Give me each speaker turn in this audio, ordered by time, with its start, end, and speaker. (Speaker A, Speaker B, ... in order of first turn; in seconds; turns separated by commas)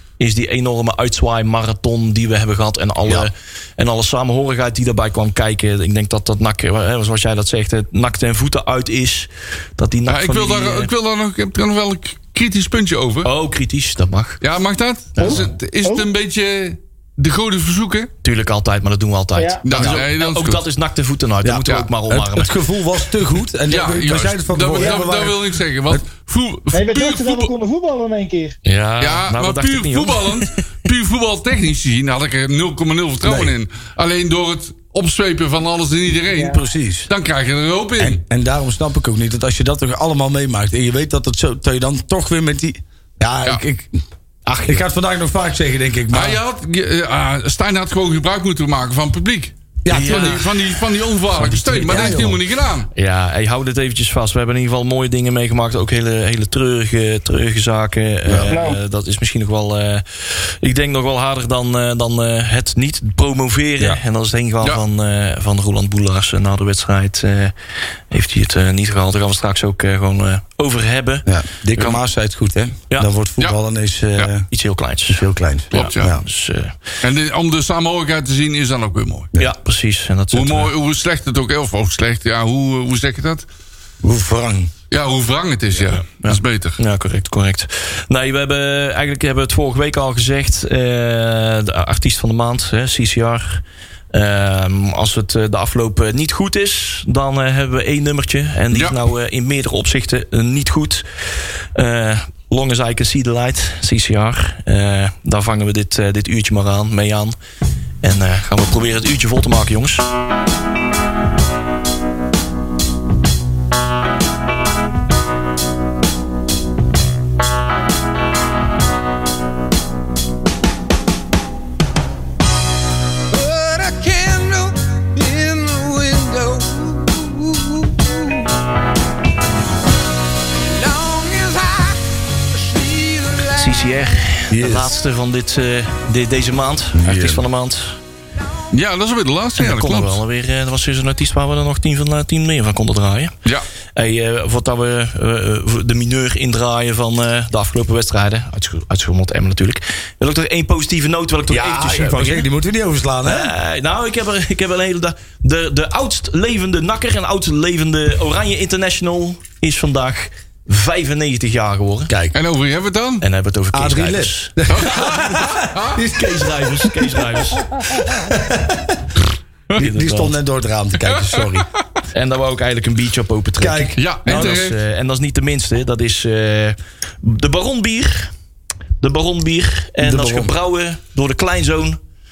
Speaker A: 0.2-10.9, Speaker B: 10.1-13.3, Speaker A: 13.2-14.4, Speaker B: 14.4-18.1, Speaker A: 15.2-15.4, Speaker C: 15.2-16.1, Speaker A: 18.2-22.5, Speaker C: 19.4-19.6, Speaker B: 19.7-20.6, Speaker D: 21.4-26.0, Speaker B: 23.7-27.5, Speaker C: 26.7-28.6, Speaker A: 28.7-30.6, Speaker B: 29.0-38.2, Speaker D: 33.2-33.5, Speaker D: 36.4-37.1, Speaker D: 38.0-44.0, Speaker A: 44.5-44.9, Speaker D: 44.7-46.4, Speaker B: 46.1-52.9, Speaker D: 49.8-50.4, Speaker A: 49.9-50.5, Speaker A: 51.3-52.3, Speaker D: 51.9-52.4, Speaker A: 53.0-67.5, Speaker D: 58.3-58.5, Speaker C: 58.5-58.8, Speaker A: 68.1-72.0, Speaker D: 71.3-74.5, Speaker A: 74.5-76.7, Speaker D: 75.1-76.2, Speaker B: 75.7-76.1, Speaker B: 77.0-79.3, Speaker A: 79.4-80.7, Speaker B: 80.3-83.5, Speaker D: 84.0-84.7, Speaker B: 84.9-86.8, Speaker A: 85.8-101.0, Speaker B: 98.7-99.0, Speaker A: 101.8-107.4, Speaker A: 108.0-110.1, Speaker E: 123.3-128.4, Speaker E: 130.7-134.1, Speaker A: 133.6-138.0, Speaker D: 134.5-135.0, Speaker D: 136.9-137.4, Speaker B: 138.7-140.2, Speaker A: 139.6-143.3, Speaker A: 143.9-152.5, Speaker D: 151.5-153.5, Speaker A: 153.2-162.1, Speaker D: 162.1-162.4, Speaker B: 162.3-163.2, Speaker A: 163.2-164.6, Speaker D: 163.7-166.5, Speaker B: 164.7-166.1, Speaker A: 166.0-167.7, Speaker D: 167.8-169.1, Speaker A: 169.8-170.3, Speaker D: 169.8-171.7, Speaker B: 171.1-171.7, Speaker A: 172.1-178.3, Speaker D: 173.6-174.7, Speaker B: 174.0-174.8, Speaker A: 179.0-182.0, Speaker D: 180.0-180.5